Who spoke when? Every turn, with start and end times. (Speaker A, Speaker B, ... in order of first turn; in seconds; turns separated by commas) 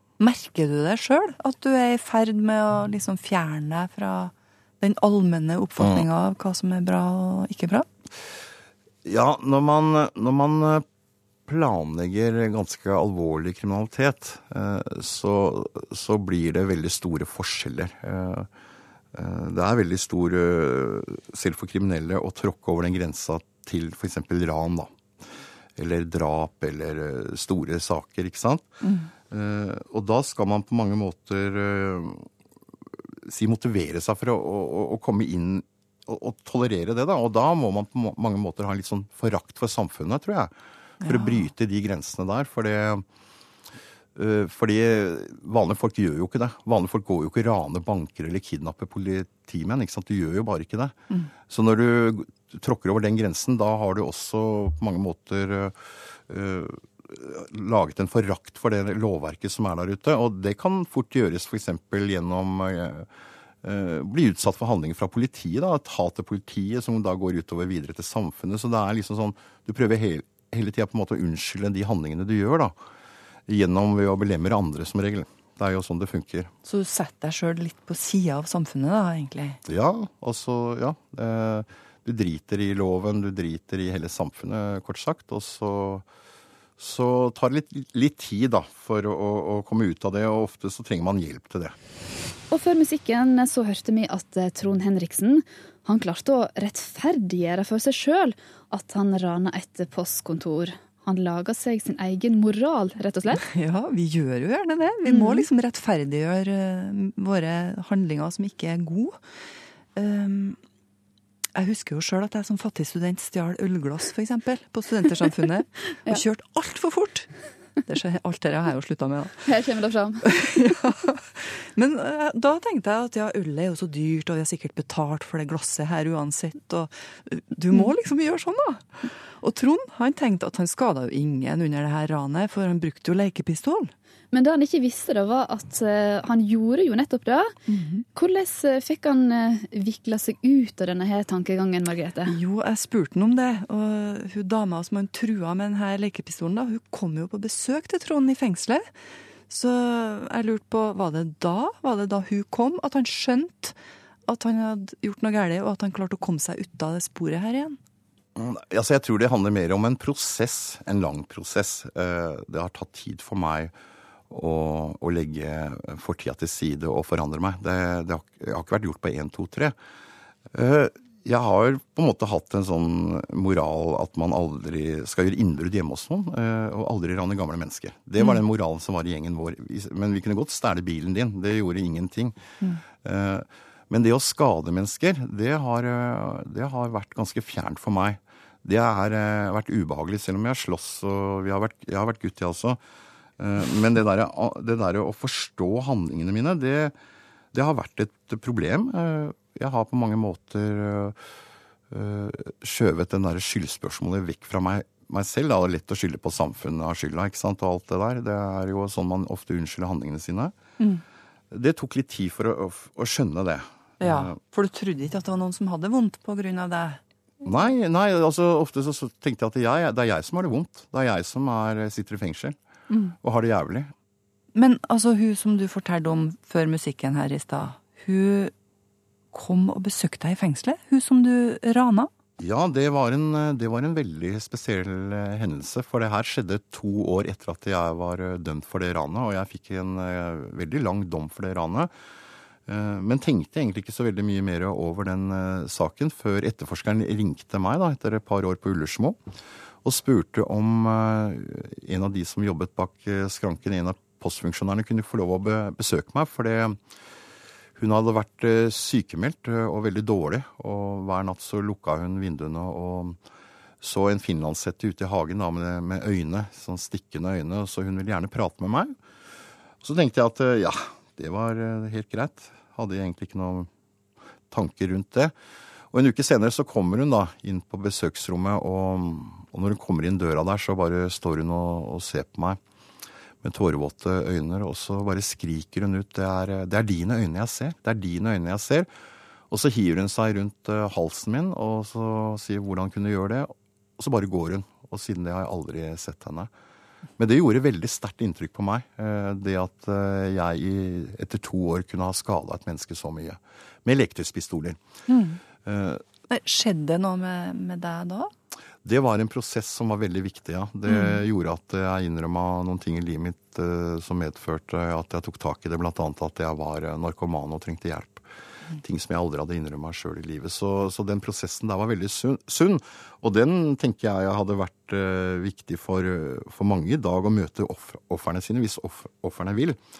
Speaker A: 0.2-7.9, Speaker B: 5.8-6.0, Speaker B: 9.0-10.8, Speaker B: 11.5-18.5, Speaker B: 19.1-24.9, Speaker B: 25.8-28.7, Speaker A: 28.8-29.1, Speaker B: 29.3-32.3, Speaker B: 33.3-43.0, Speaker A: 41.0-41.5, Speaker B: 44.1-50.9, Speaker B: 51.5-63.1, Speaker B: 63.6-72.8, Speaker B: 73.5-76.5, Speaker A: 76.6-79.6, Speaker B: 79.7-86.0, Speaker B: 86.8-91.7, Speaker C: 92.5-103.4, Speaker A: 103.4-109.2, Speaker C: 105.1-105.4, Speaker A: 109.9-110.6, Speaker A: 111.5-117.3, Speaker A: 117.8-119.5, Speaker C: 119.5-120.2, Speaker A: 120.2-133.9, Speaker C: 134.3-137.5, Speaker A: 137.7-138.0, Speaker C: 138.1-142.3, Speaker A: 142.2-148.9, Speaker A: 149.5-157.8, Speaker B: 158.3-163.7, Speaker B: 164.3-169.7, Speaker B: 170.5-182.4, Speaker A: 178.2-178.4, Speaker B: 183.0-192.8, Speaker B: 193.4-196.9, Speaker B: 197.5-201.2, Speaker B: 201.9-210.5, Speaker B: 211.5-214.4, Speaker A: 214.0-217.0, Speaker B: 217.4-222.6, Speaker A: 222.9-223.2, Speaker B: 223.2-223.9, Speaker A: 224.5-228.5, Speaker A: 229.3-232.1, Speaker B: 232.4-241.9, Speaker B: 242.7-249.2, Speaker B: 249.8-256.8, Speaker B: 257.8-263.2, Speaker B: 263.8-268.9, Speaker B: 269.8-273.7, Speaker B: 274.5-275.3, Speaker B: 275.9-282.6, Speaker B: 283.4-288.9, Speaker B: 289.5-296.5, Speaker B: 297.2-304.8, Speaker A: 305.1-305.4, Speaker B: 305.6-306.0, Speaker A: 306.3-308.3, Speaker B: 308.8-318.2, Speaker A: 310.9-311.2, Speaker B: 318.8-329.8